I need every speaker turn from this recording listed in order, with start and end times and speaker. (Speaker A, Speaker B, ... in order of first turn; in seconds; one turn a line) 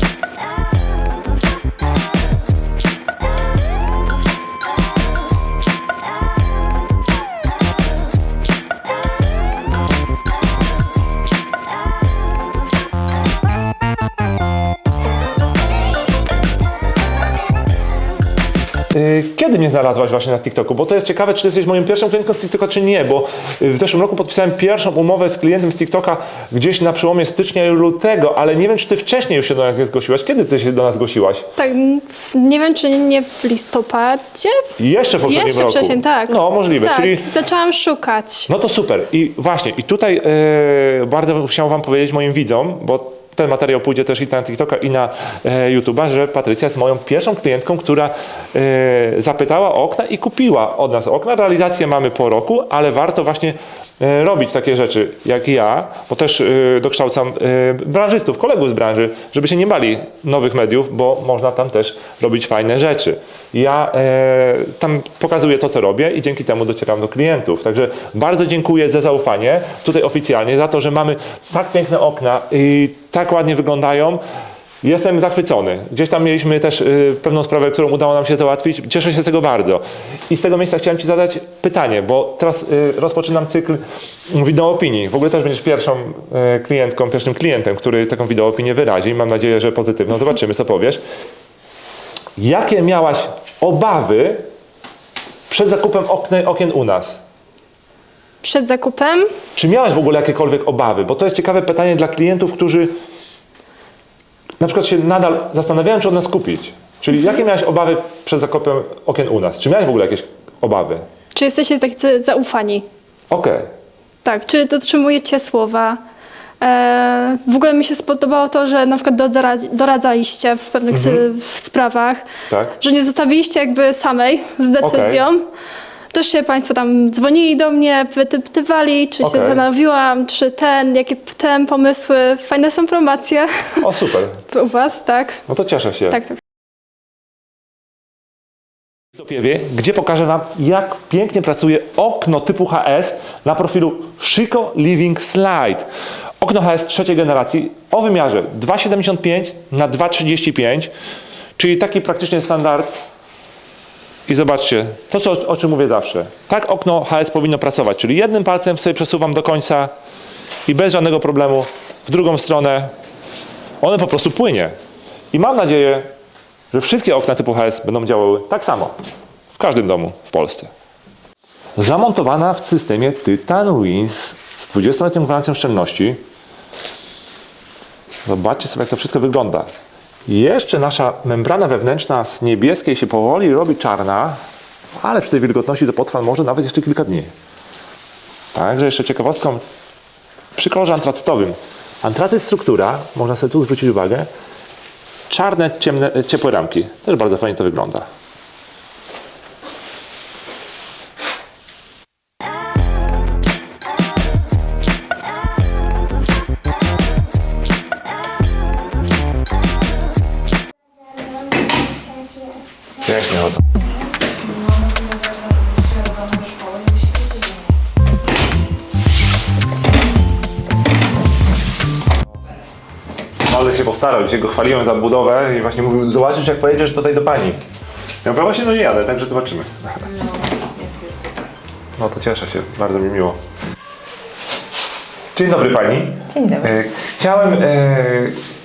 Speaker A: 18.9-31.5
Speaker B: 31.6-38.5
Speaker A: 34.8-37.3
Speaker A: 38.5-74.2
Speaker A: 74.8-91.0
Speaker A: 92.4-94.4
Speaker A: 95.5-97.2
Speaker B: 98.4-99.3
Speaker A: 99.5-102.9
Speaker A: 104.6-111.0
Speaker B: 111.3-112.8
Speaker A: 113.3-113.7
Speaker B: 114.2-116.0
Speaker B: 116.6-122.3
Speaker A: 120.9-121.3
Speaker A: 122.5-122.7
Speaker B: 122.8-125.4
Speaker A: 124.8-125.2
Speaker B: 126.1-133.8
Speaker A: 129.2-129.6
Speaker A: 133.8-134.4
Speaker B: 134.5-135.4
Speaker A: 135.5-136.2
Speaker B: 136.1-136.4
Speaker A: 139.2-145.9
Speaker A: 146.4-150.9
Speaker A: 151.6-153.0
Speaker A: 154.2-159.9
Speaker A: 160.6-162.9
Speaker A: 163.8-164.7
Speaker A: 165.3-166.1
Speaker A: 166.7-168.9
Speaker A: 169.5-170.7
Speaker A: 171.8-176.2
Speaker A: 178.2-179.7
Speaker A: 180.3-184.4
Speaker A: 185.0-187.3
Speaker A: 188.5-189.6
Speaker A: 190.5-194.3
Speaker A: 195.3-198.1
Speaker A: 213.0-213.7
Speaker C: 216.0-217.3
Speaker A: 223.4-227.6
Speaker A: 228.2-230.1
Speaker C: 230.1-231.4
Speaker A: 232.0-233.4
Speaker A: 235.3-238.4
Speaker C: 236.3-236.7